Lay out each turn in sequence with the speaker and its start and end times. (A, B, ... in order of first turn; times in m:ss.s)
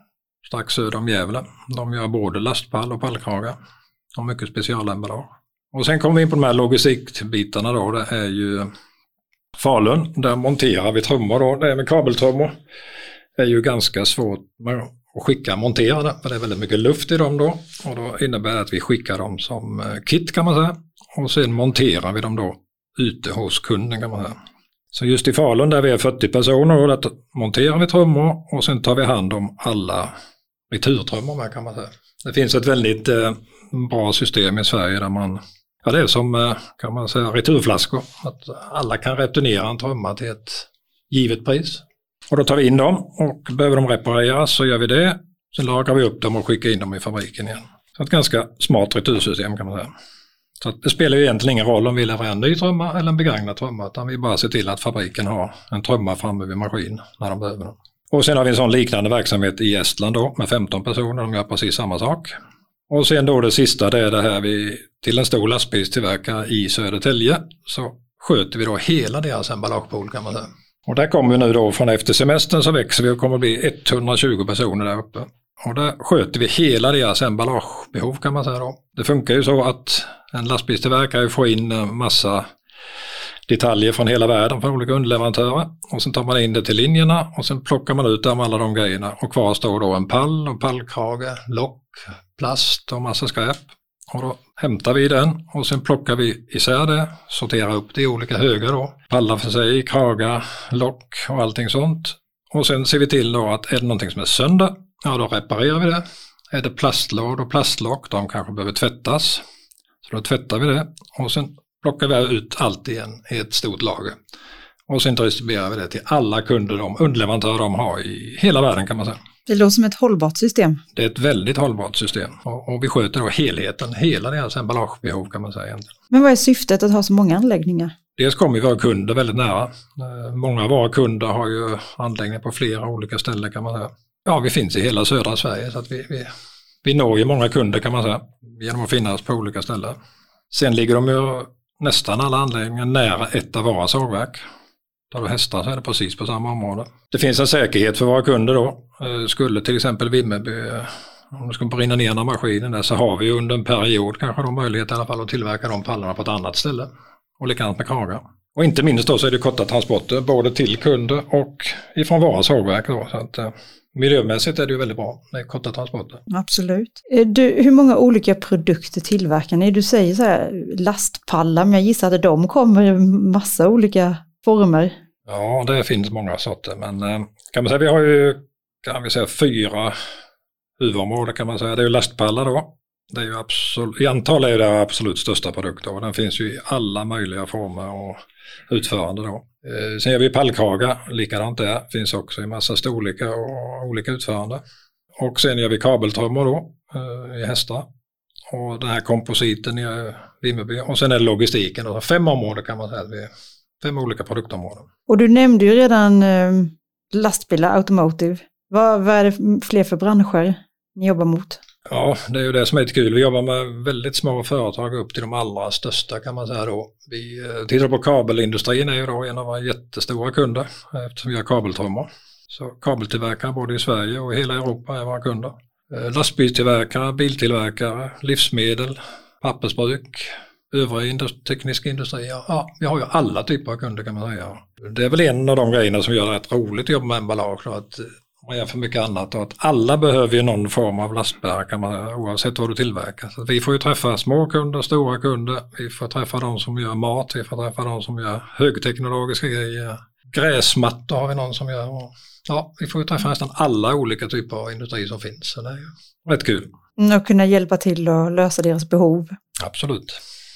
0:00.4-0:03.6 A
0:04.2-0:08.7 A
0:09.6-0:12.5 A
0:13.4-0:24.4 A
0:24.9-0:30.1 A
0:30.7-0:49.9 A
0:50.6-1:02.3 A
1:02.9-1:22.5 A
1:23.5-1:49.4 A
1:50.0-1:54.2 A
1:54.9-1:59.2 A
1:59.5-2:00.8 B
2:00.9-2:05.9 A
2:06.1-2:07.9 B
2:08.2-2:16.3 A
2:16.8-2:20.0 A
2:20.5-2:24.4 A
2:25.1-2:46.2 A
2:46.3-2:55.0 B
2:55.3-2:59.9 A
3:00.8-3:14.6 A
3:15.2-3:17.8 A
3:18.5-3:23.3 A
3:23.8-3:24.9 A
3:25.1-3:31.6 B
3:31.9-4:16.7 A
4:17.0-4:19.4 B
4:19.6-4:20.2 A